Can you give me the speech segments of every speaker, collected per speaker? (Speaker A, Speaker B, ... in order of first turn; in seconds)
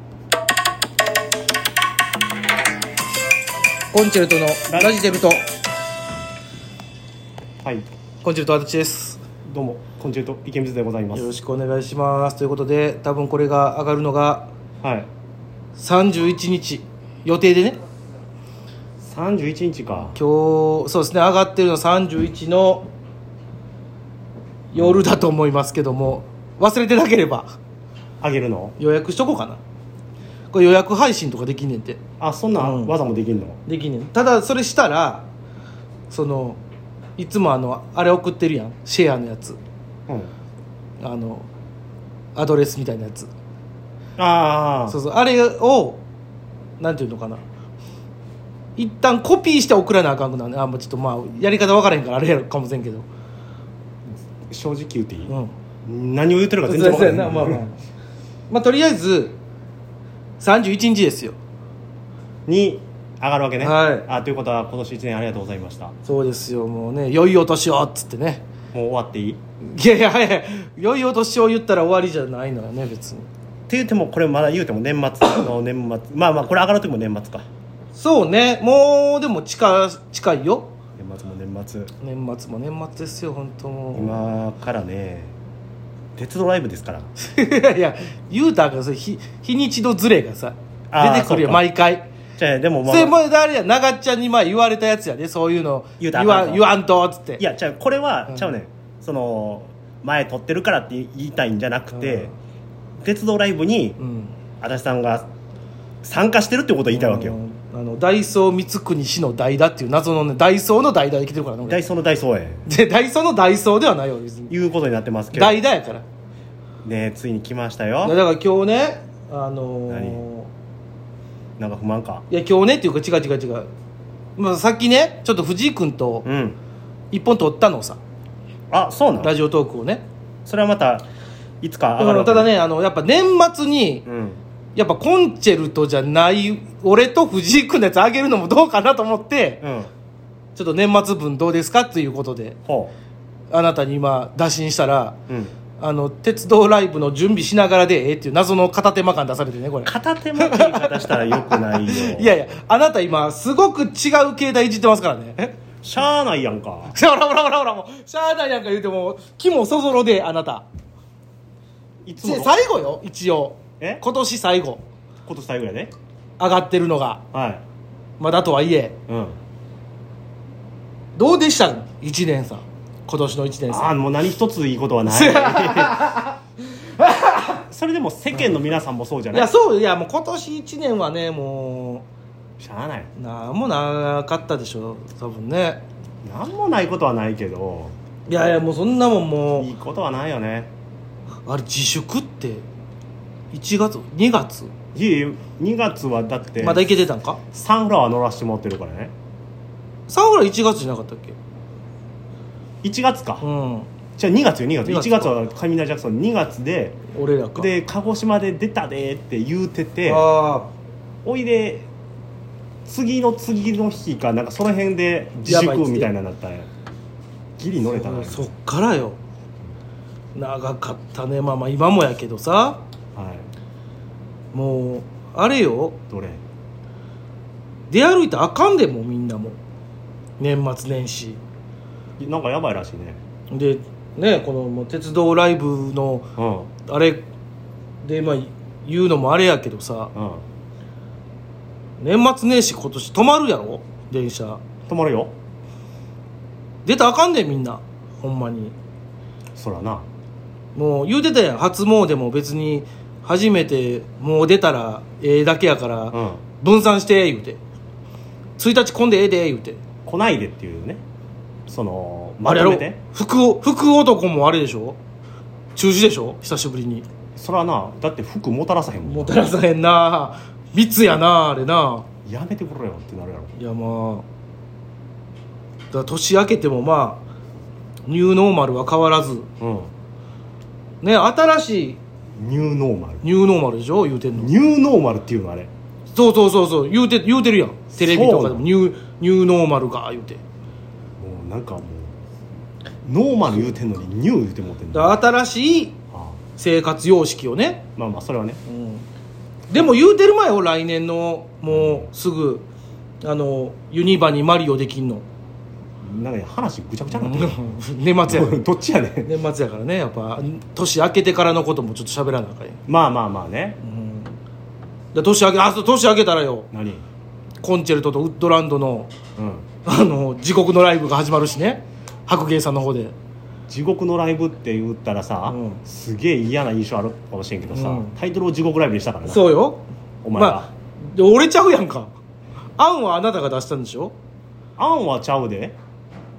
Speaker A: 3.9-5.5, 8.2-9.2, 11.1-14.5, 15.8-17.8, 20.1-22.9, 24.7-27.6, 28.8-29.6, 30.5-32.0, 32.6-32.9, 33.7-35.3, 36.1-36.6, 37.2-39.6, 41.0-41.5, 42.4-43.3, 44.9-46.0, 46.8-47.4, 48.8-53.1, 56.7-57.8, 58.5-59.4, 60.4-61.4, 63.6-64.1, 66.0-68.4, 69.6-73.3, 78.0-80.7, 82.0-84.2, 87.2-92.1, 92.8-97.4, 104.0-104.3, 106.9-111.8, 112.7-114.5, 115.3-116.0, 118.0-120.5, 122.3-123.7, 124.4-126.3, 127.1-128.0, 129.2-130.1, 132.0-134.1, 134.8-139.6, 140.6-142.6, 143.5-145.2, 145.8-155.6, 156.9-160.7, 162.2-164.8, 166.4-167.2, 168.2-169.0, 171.2-173.9, 175.1-176.4, 177.0-177.6, 179.3-182.1, 183.2-185.8, 188.3-189.7, 191.5-192.7, 193.5-194.7, 196.6-197.4, 200.1-201.4, 203.4-203.9, 204.8-205.3, 207.1-207.7, 210.1-210.7, 215.4-216.1, 217.9-219.2, 220.3-222.8, 224.5-226.0, 227.9-229.6, 230.4-231.4, 233.5-236.3, 236.9-237.2, 238.0-240.1, 242.0-244.6, 246.8-248.8, 250.8-257.6, 258.6-259.8, 262.4-265.0, 265.8-267.1, 269.0-272.1, 273.6-274.2, 275.9-277.2, 278.1-279.5, 281.0-282.0, 283.2-284.5, 286.1-290.4, 294.9-296.0, 296.6-297.9, 298.7-299.1, 299.7-302.7, 303.2-305.2, 307.1-308.6, 309.2-312.8, 313.8-314.4, 315.1-316.7, 317.6-319.1, 319.8-323.1, 325.5-325.8, 327.7-328.1, 329.2-332.1, 332.8-334.1
Speaker B: 4.7-5.0, 9.5-11.3, 14.8-15.1, 19.0-20.2, 28.2-28.8, 32.2-33.6, 44.2-45.0, 54.5-57.6, 62.5-66.0, 68.7-69.4, 73.7-77.5, 81.0-81.9, 84.0-85.3, 86.2-87.1, 90.9-91.7, 92.4-93.2, 96.0-96.7, 97.4-102.3, 103.0-104.0, 104.6-105.3, 106.0-107.4, 111.7-112.7, 114.5-115.6, 116.8-118.2, 119.9-120.2, 121.6-122.3, 126.2-126.6, 128.7-129.3, 130.4-131.1, 131.6-132.5, 134.1-134.4, 139.6-139.9, 142.7-142.9, 149.8-152.3, 155.8-157.0, 162.1-162.7, 165.3-165.9, 167.3-167.6, 169.1-169.4, 173.7-176.2, 177.6-179.5, 182.6-183.1, 186.2-187.9, 189.6-190.7, 194.9-196.9, 197.5-199.1, 202.8-203.4, 204.2-207.0, 207.6-210.3, 211.2-211.9, 212.9-216.7, 217.6-218.5, 223.2-223.5, 226.1-226.4, 232.2-233.2, 236.4-236.7, 240.1-240.4, 244.9-245.3, 249.6-250.1, 256.1-256.4, 260.1-261.0, 261.7-263.0, 267.4-269.5, 272.3-273.5, 279.6-279.9, 282.4-283.2, 284.4-285.7, 287.9-288.7, 291.2-292.1, 293.1-295.2, 296.1-296.4, 298.0-298.6, 301.7-302.1, 306.0-309.3, 312.9-313.8, 316.7-317.0, 319.4-319.7, 323.7-329.5, 330.2-330.7, 334.8-335.8